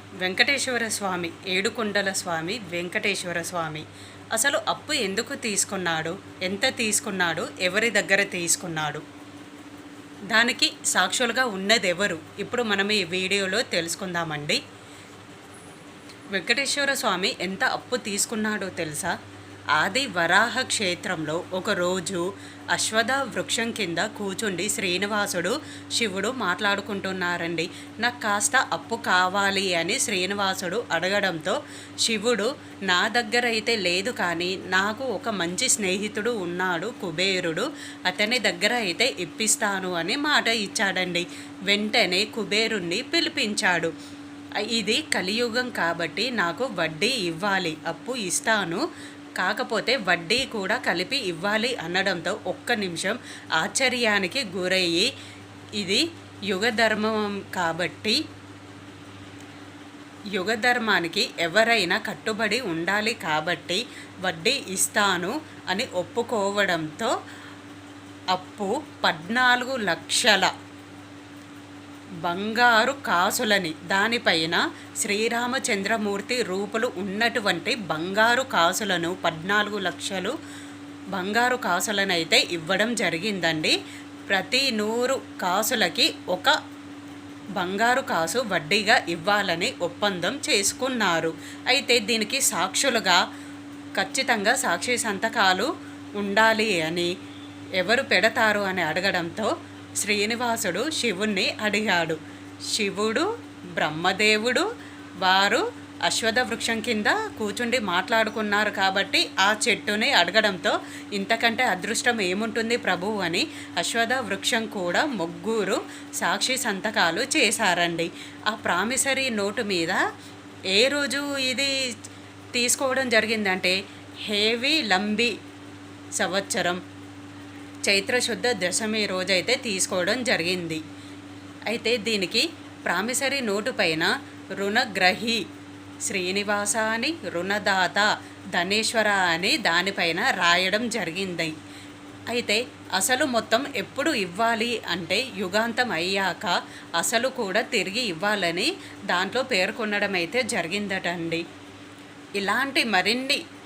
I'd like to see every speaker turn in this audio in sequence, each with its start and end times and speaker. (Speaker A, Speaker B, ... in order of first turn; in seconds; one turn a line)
Speaker A: 0.2-9.0
Speaker A: 10.3-14.6
Speaker A: 16.3-19.1
Speaker A: 19.8-43.9
Speaker A: 44.7-48.8
Speaker A: 49.4-55.1
Speaker A: 55.8-58.2
Speaker A: 60.3-67.1
Speaker A: 68.3-70.5
Speaker A: 72.2-80.3
Speaker A: 81.1-83.7
Speaker A: 84.3-86.6
Speaker A: 87.6-93.2
Speaker A: 94.0-97.1
Speaker A: 97.8-102.2
Speaker A: 102.7-104.7
Speaker A: 105.2-120.0
Speaker A: 120.7-121.7
Speaker A: 122.5-123.8
Speaker A: 124.3-125.3
Speaker A: 126.2-126.8
Speaker A: 127.9-130.8
Speaker A: 131.7-135.4
Speaker A: 136.1-141.5
Speaker A: 142.3-151.4
Speaker A: 152.4-153.4